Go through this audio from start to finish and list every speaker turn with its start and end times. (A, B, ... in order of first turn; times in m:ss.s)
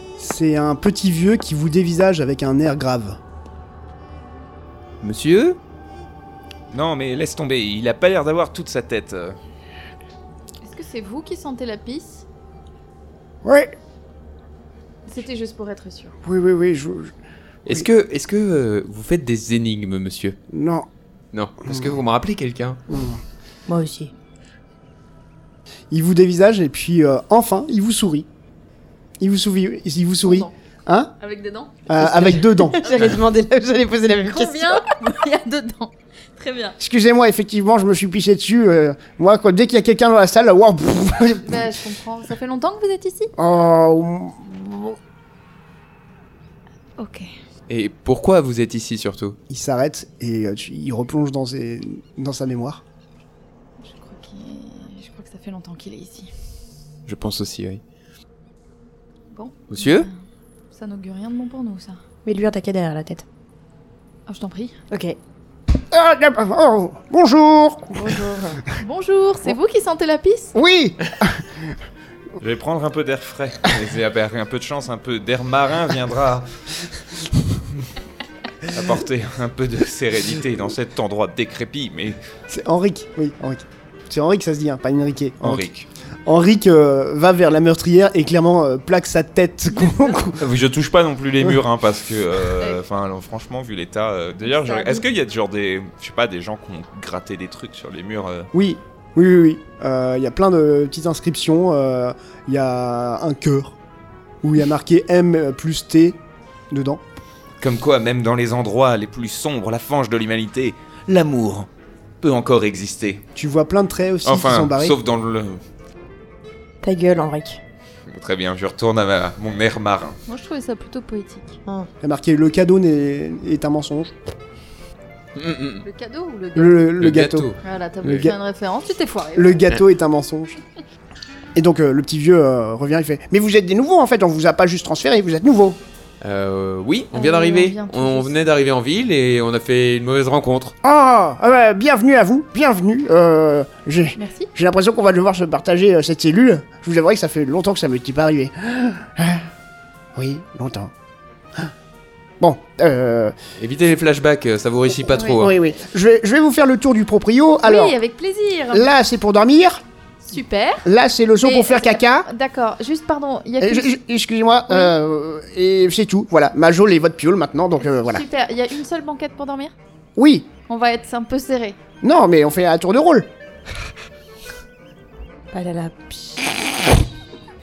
0:00.2-0:03.2 A
0:05.0-0:05.6 B
0:06.7-0:09.4 C
0:10.6-0:12.2 D
0:13.4-0:13.7 A
0:15.0-0:16.1 D
0:16.2-0:17.1 A
0:17.6-0:20.4 B
0:20.5-0:20.9 A
0:21.3-0:22.8 B
0:22.9-0:23.2 A
0:23.7-0:24.1 E
0:25.9-0:28.3 A
0:29.2-0:31.1 A
0:30.2-0:30.5 D
0:31.2-0:31.7 D
0:31.9-0:32.9 A
0:32.0-0:34.9 E
0:34.3-0:36.8 D
0:36.8-0:41.6 A
0:41.4-0:43.3 D
0:43.4-0:45.0 A
0:47.0-0:47.3 D
0:47.7-0:49.4 B
0:49.5-0:52.8 A
0:53.8-0:56.3 D
0:57.1-0:57.8 B
0:59.3-1:00.1 D
0:59.7-1:00.1 B
1:00.7-1:02.0 D
1:02.2-1:03.2 E
1:04.3-1:04.8 D
1:04.9-1:05.2 E
1:05.9-1:08.1 A
1:08.0-1:08.6 E
1:08.8-1:10.5 D
1:10.5-1:11.6 A
1:12.4-1:16.5 C
1:18.6-1:22.2 C
1:22.5-1:25.6 A
1:25.4-1:25.9 C
1:26.2-1:30.4 A
1:29.7-1:30.2 D
1:30.4-1:38.5 C
1:34.4-1:35.1 D
1:38.5-1:43.8 A
1:44.4-1:46.2 A
1:46.7-1:47.0 A
1:47.6-1:51.7 C
1:52.2-1:53.2 C
1:53.3-1:54.9 A
1:54.2-1:55.6 C
1:56.8-1:57.6 E
1:58.1-2:00.2 C
2:00.3-2:01.6 D
2:02.0-2:04.1 A
2:05.3-2:05.8 B
2:05.8-2:06.9 D
2:06.5-2:08.3 A
2:07.0-2:08.3 B
2:07.6-2:09.7 D
2:09.4-2:10.6 A
2:11.5-2:15.8 A
2:16.2-2:20.7 B
2:17.1-2:18.4 D
2:20.8-2:29.4 A
2:24.2-2:24.5 D
2:30.2-2:30.9 A
2:32.4-2:33.3 A
2:33.6-2:35.5 B
2:35.4-2:38.0 A
2:37.6-2:38.9 D
2:38.7-2:39.8 A
2:40.3-2:40.9 D
2:40.8-2:42.3 A
2:41.4-2:43.9 D
2:43.6-2:48.2 A
2:47.8-2:49.7 D
2:50.2-2:50.5 A
2:50.7-2:51.8 D
2:52.0-2:53.3 A
2:55.5-2:56.6 E